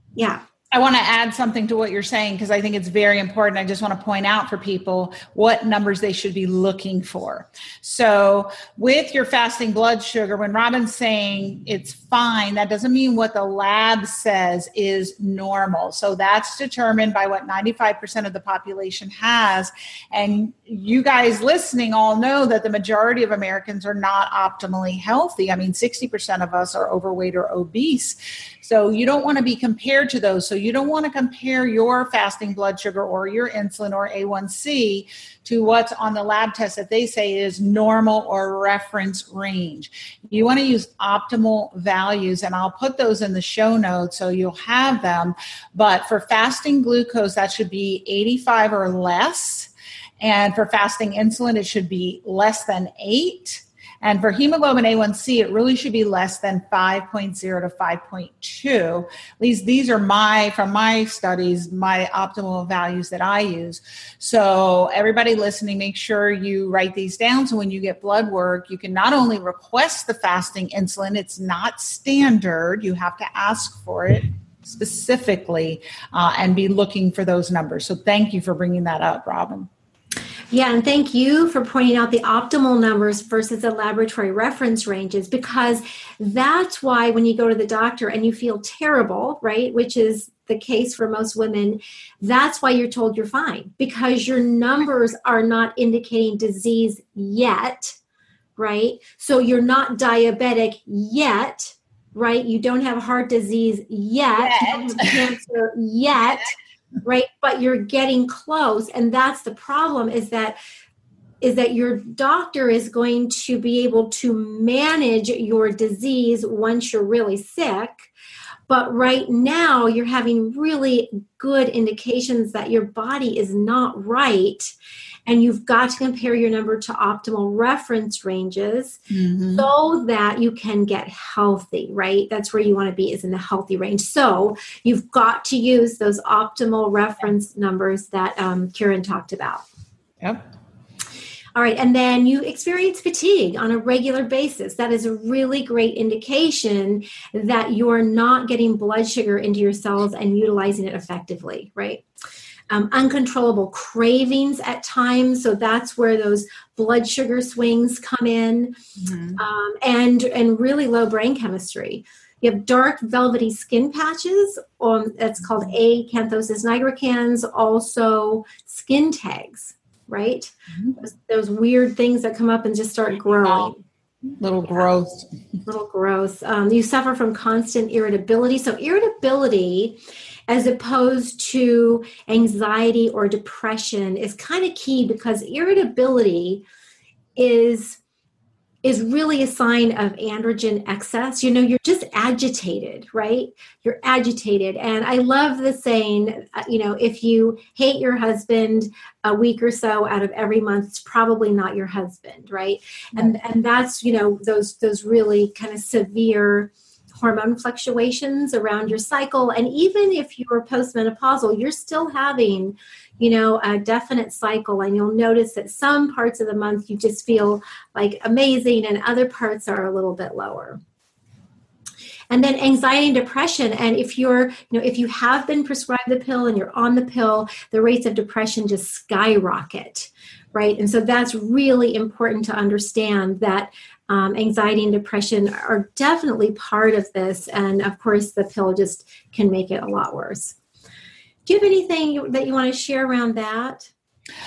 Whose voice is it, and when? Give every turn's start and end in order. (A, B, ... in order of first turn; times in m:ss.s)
0:00.2-0:00.4 A
0:00.7-1:19.7 B
1:20.5-1:38.0 A
1:38.6-1:46.5 A
1:44.4-1:45.2 B
1:47.0-1:50.6 A
1:51.4-1:58.1 A
1:58.7-2:04.7 A
2:05.2-2:09.0 A
2:09.1-2:09.7 B
2:09.5-2:19.6 A
2:21.5-2:32.0 A
2:32.7-2:38.8 A
2:39.0-2:39.4 B
2:39.4-2:53.8 A
2:50.7-2:51.0 B
2:54.3-2:55.3 B
2:55.7-3:06.6 A
3:07.4-3:08.0 A
3:08.8-3:40.8 A
3:42.3-4:00.5 A
4:01.4-4:03.9 A